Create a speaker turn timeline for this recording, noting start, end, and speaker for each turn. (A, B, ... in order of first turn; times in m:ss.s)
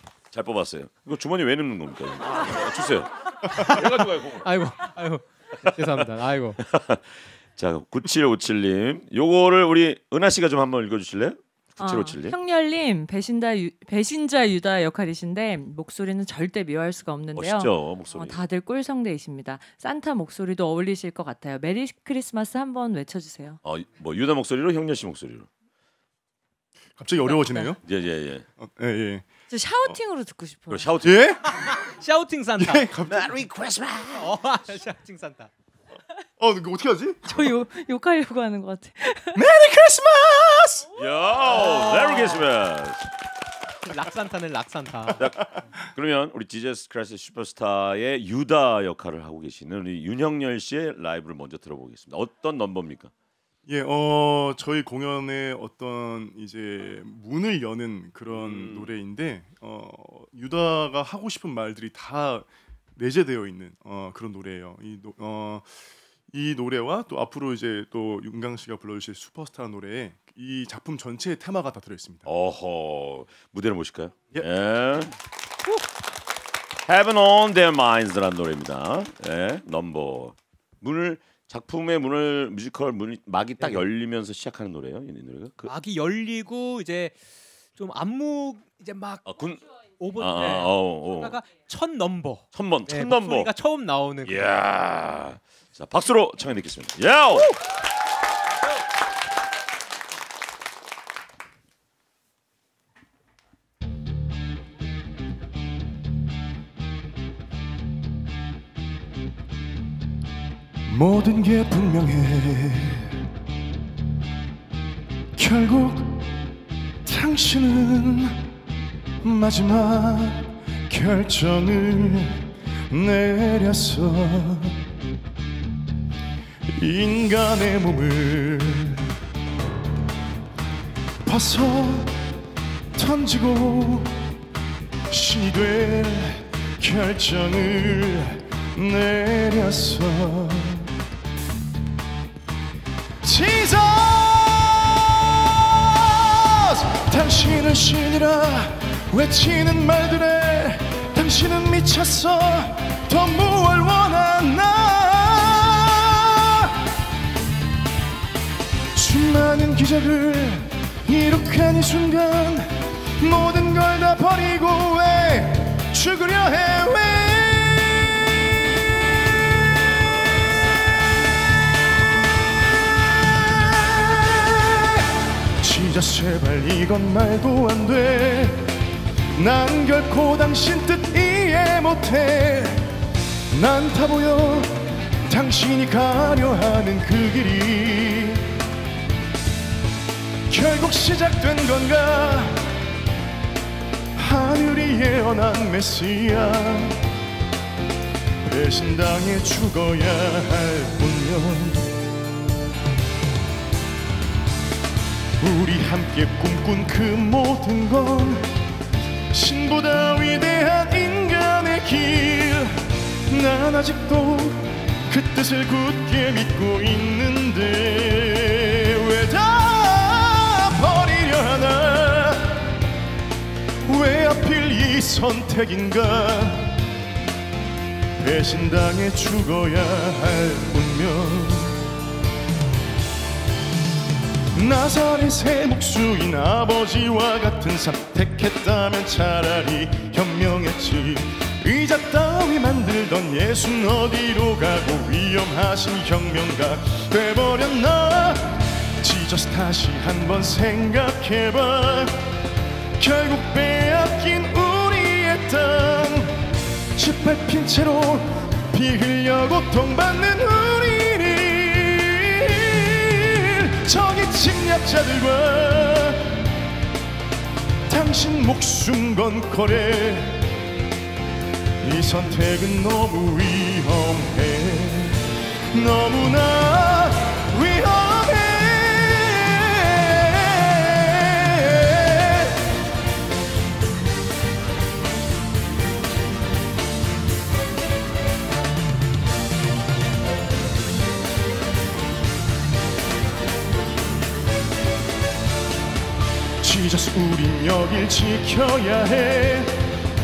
0:00.3-0:04.5 A
0:03.5-0:06.6 B
0:05.7-0:06.1 A
0:06.6-0:12.4 A
0:11.8-0:23.6 C
0:17.4-0:18.4 A
0:23.6-0:25.5 A
0:27.0-0:27.8 D
0:27.2-0:27.7 C
0:27.8-0:28.4 A
0:28.6-0:29.3 D
0:29.5-0:30.9 C
0:30.7-0:31.3 A
0:31.0-0:31.8 D
0:31.5-0:32.8 B
0:32.6-0:33.4 D
0:33.1-0:34.4 A
0:34.2-0:35.5 B
0:36.4-0:37.4 D
0:37.2-0:39.4 C
0:39.4-0:40.9 D
0:41.0-0:43.1 A
0:43.8-0:45.2 B
0:45.2-0:45.7 D
0:45.2-0:53.1 A
0:53.7-1:12.3 D
0:58.3-0:58.9 A
1:12.3-1:15.2 A
1:16.9-1:25.7 A
1:25.6-1:27.2 B
1:27.8-1:29.2 B
1:29.2-1:29.6 A
1:30.0-1:34.5 B
1:30.2-1:31.4 A
1:32.5-1:33.5 A
1:34.3-1:37.6 A
1:50.9-1:53.2 D
1:55.4-1:56.4 D
1:57.0-1:58.4 D
1:59.2-2:04.8 D
2:06.7-2:09.1 D
2:11.2-2:12.2 D
2:13.0-2:14.2 D
2:15.1-2:20.9 D
2:23.2-2:36.9 D
2:39.0-2:49.8 D
2:52.8-2:58.8 D
2:59.3-3:02.9 D
3:03.5-3:08.5 D
3:10.5-3:12.7 D
3:14.2-3:17.0 D
3:18.5-3:21.9 D
3:25.4-3:28.5 D
3:29.3-3:42.7 D
3:43.8-3:46.8 D
3:48.2-3:51.8 D
3:54.5-4:12.2 D
4:13.0-4:16.4 D
4:17.0-4:26.5 D
4:27.9-4:30.6 D
4:31.8-4:42.6 D
4:56.6-4:59.8 D